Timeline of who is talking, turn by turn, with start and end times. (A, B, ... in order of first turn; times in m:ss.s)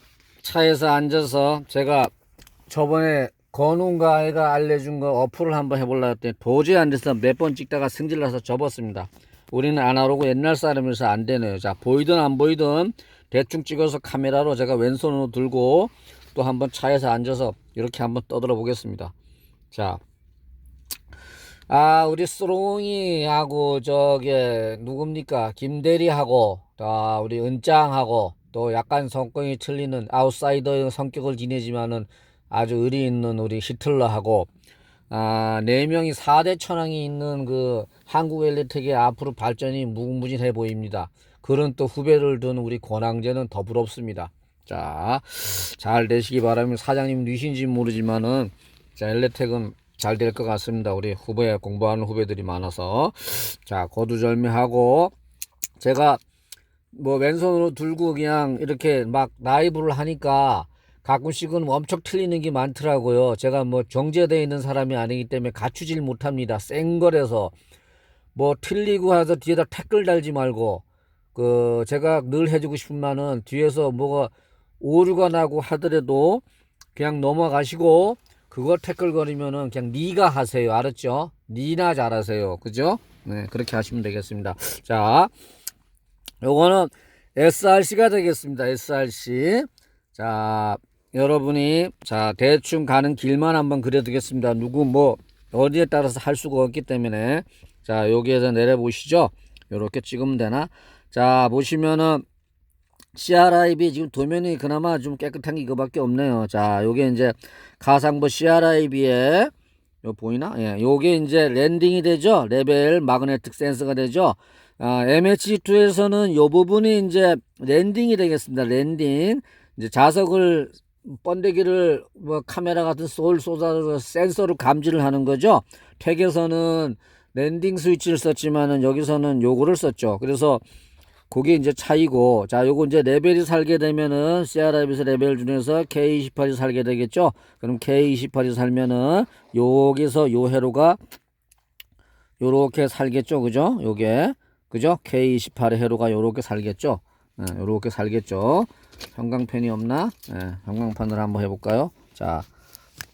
0:00.4-0:02.1 A
0:02.7-0:19.1 A
0:19.7-0:20.0 A
0:21.7-0:34.5 A
0:35.1-0:55.1 A
0:55.8-0:56.2 A
0:56.9-1:07.5 A
1:08.3-1:10.8 A
1:11.3-1:16.4 A
1:17.0-1:25.3 A
1:26.4-1:42.2 A
1:43.1-1:49.5 A
1:50.0-2:10.6 A
2:11.3-2:21.0 A
2:22.4-2:32.4 A